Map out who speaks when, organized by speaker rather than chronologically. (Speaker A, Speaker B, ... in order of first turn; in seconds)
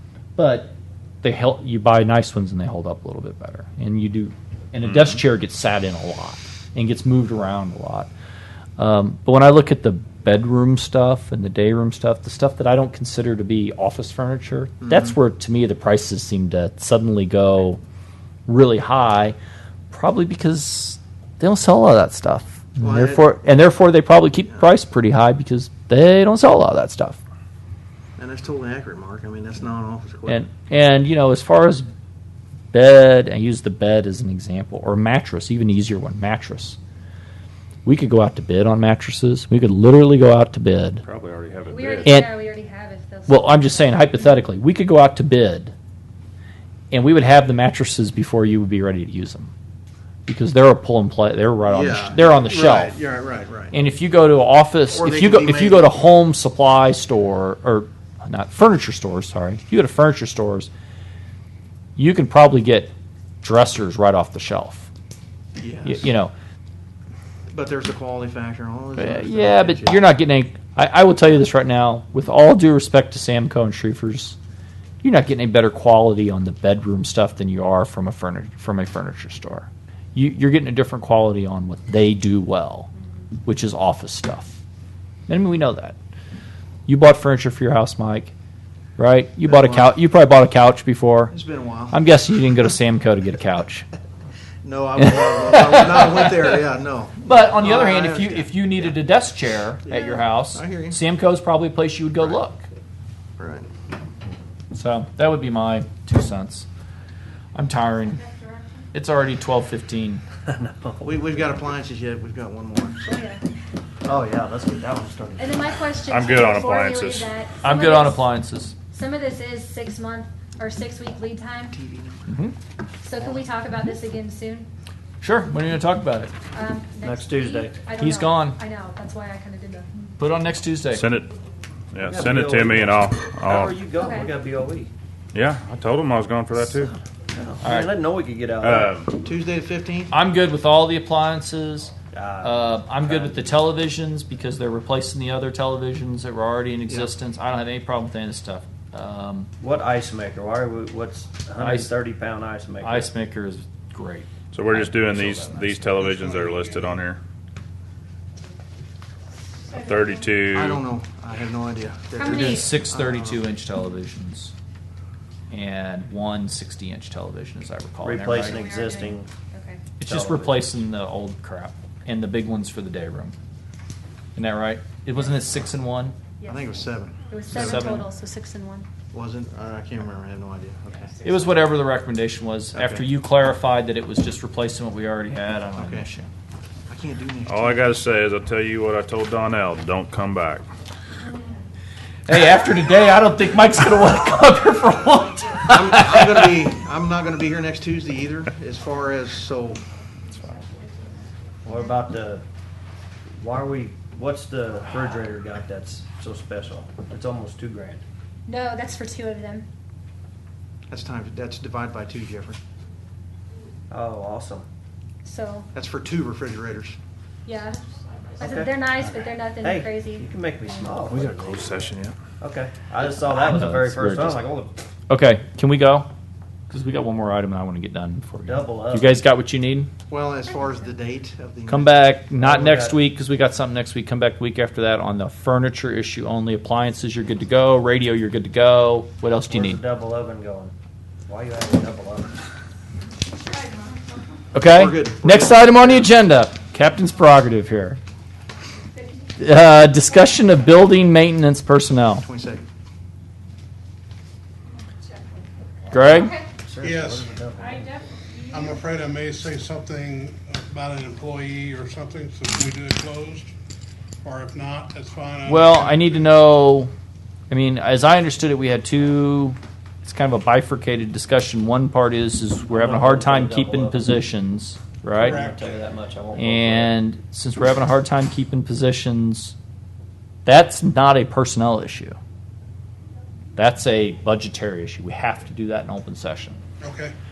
Speaker A: 0.3-8.1, 8.8-17.8, 18.4-19.4, 19.9-27.2, 30.3-31.9, 32.7-36.8, 37.8-41.0, 42.0-42.3, 43.3-45.7, 46.9-49.5, 50.3-53.0, 53.7-60.7, 62.0-64.9, 65.8-66.3, 69.0-74.4, 75.0-82.9, 83.4-84.6, 85.3-86.0, 86.9-88.3, 89.0-91.3, 91.9-93.9, 95.0-96.6, 97.2-102.7, 104.7-106.7, 107.5-108.2, 108.9-110.2, 117.6-118.7, 122.3-122.5, 125.2-126.3, 128.0-128.6, 130.2-131.0, 137.6-138.0, 140.1-149.5, 151.6-151.9, 152.8-155.8, 162.2-164.5, 165.5-168.7, 170.0-173.3, 174.3-176.2, 177.5-178.0, 181.2-186.3, 192.3-196.5, 223.2-224.4, 225.1-226.1, 226.7-229.9, 231.7-239.8, 244.5-248.0, 249.4-252.2, 255.9-256.3, 265.5-266.9, 267.5-275.5, 276.4-279.6, 280.4-282.1, 283.6-286.6
Speaker B: 14.8-15.1, 22.8-23.3, 28.2-30.4, 51.6-53.8, 54.9-56.0, 65.6-66.1, 67.5-70.0, 89.5-89.9, 91.3-92.0, 94.6-98.7, 99.8-101.0, 103.4-103.7, 111.0-113.0, 121.7-122.3, 139.1-140.1, 160.5-163.4, 176.4-178.0, 179.1-181.2, 182.7-183.1, 185.7-186.1, 186.9-187.9, 195.7-199.8, 210.9-212.6, 215.7-217.0, 230.1-232.1, 244.6-246.1, 252.2-252.7
Speaker C: 41.0-42.1, 116.1-117.3, 130.9-131.3, 131.9-133.8, 135.3-137.0, 138.6-139.1, 154.5-157.2, 159.7-160.9, 187.5-190.7, 221.1-222.1
Speaker D: 41.7-44.0, 108.2-108.6, 113.0-113.4, 115.4-118.4, 118.9-121.8, 123.0-124.7, 126.5-129.9, 134.0-134.3, 162.2-162.7, 168.3-169.8, 176.4-178.9, 208.4-209.7, 215.2-215.7, 217.4-217.8, 218.4-220.9, 256.0-256.4
Speaker E: 110.4-111.3, 114.0-115.7, 127.0-127.8, 132.0-134.9, 137.3-138.9, 142.1-143.4, 149.6-153.1, 168.0-169.3, 170.0-170.7, 201.6-202.4, 203.4-208.0, 213.9-214.7, 218.4-218.7, 219.6-221.9, 222.4-224.8, 228.4-229.1, 232.3-233.0, 239.5-240.7, 241.2-242.3, 256.6-258.0, 272.7-274.1, 275.1-276.9
Speaker F: 156.2-156.7, 256.8-257.3, 258.5-263.5, 264.2-266.2, 275.2-275.7, 286.8-287.1